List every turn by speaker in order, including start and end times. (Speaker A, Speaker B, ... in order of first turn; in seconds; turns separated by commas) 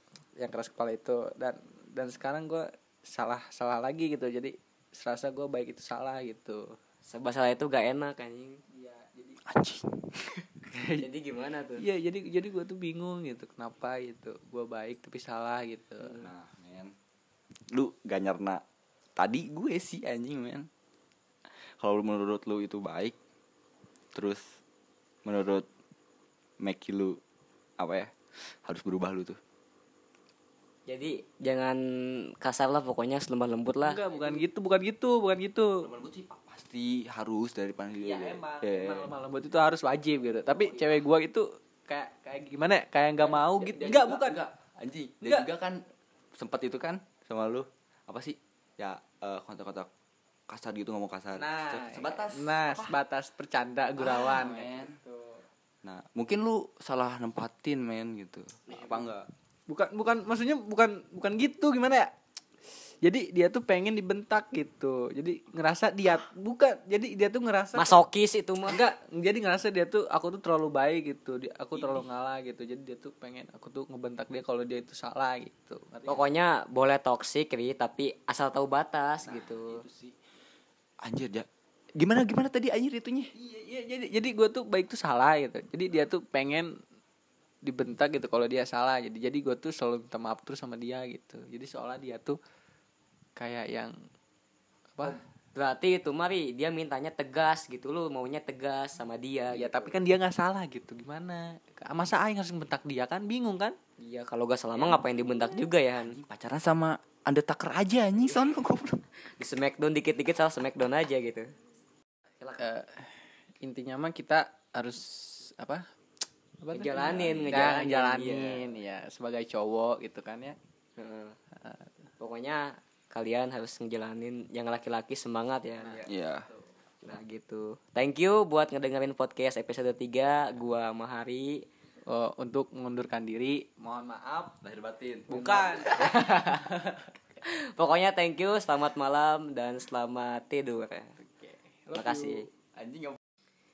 Speaker A: 0.4-6.8, Speaker B: 7.1-8.6, Speaker A: 8.7-9.4, Speaker C: 9.4-10.6, Speaker A: 10.7-11.1, Speaker B: 11.0-11.9, Speaker A: 11.8-16.2, Speaker C: 16.1-16.9, Speaker C: 17.7-18.6, Speaker C: 19.2-20.7, Speaker C: 21.8-23.2, Speaker C: 24.1-24.6, Speaker C: 25.2-25.7, Speaker C: 26.6-27.2, Speaker C: 27.8-28.1, Speaker C: 28.6-29.4, Speaker B: 30.9-34.0, Speaker A: 33.8-35.8, Speaker C: 35.8-39.1, Speaker A: 38.0-44.4, Speaker C: 40.5-40.9, Speaker C: 43.2-45.8, Speaker C: 46.4-49.9, Speaker C: 50.5-53.0, Speaker A: 51.4-55.4, Speaker C: 54.0-55.0, Speaker C: 55.8-59.3, Speaker A: 58.7-59.0, Speaker A: 59.7-62.1, Speaker A: 63.0-68.0, Speaker B: 67.8-68.8, Speaker A: 68.7-76.2, Speaker C: 71.7-72.1, Speaker B: 76.1-79.8, Speaker C: 79.3-80.2, Speaker C: 81.0-83.3, Speaker A: 83.3-86.8, Speaker A: 87.6-92.4, Speaker A: 93.4-94.0, Speaker B: 95.0-100.0, Speaker A: 99.5-103.8, Speaker B: 104.0-106.2, Speaker C: 106.0-109.0, Speaker B: 109.4-111.5, Speaker A: 112.6-113.1, Speaker A: 113.6-115.8, Speaker A: 116.6-120.6, Speaker B: 116.7-118.6, Speaker C: 117.1-117.5, Speaker B: 121.0-121.4, Speaker A: 121.6-121.9, Speaker B: 122.2-126.1, Speaker A: 125.8-126.6, Speaker C: 126.1-126.5, Speaker B: 127.0-131.6, Speaker A: 132.1-134.6, Speaker C: 134.6-135.8, Speaker A: 135.3-137.0, Speaker B: 135.4-136.7, Speaker B: 137.5-141.1, Speaker A: 141.2-142.4, Speaker B: 141.9-142.5, Speaker C: 142.8-143.2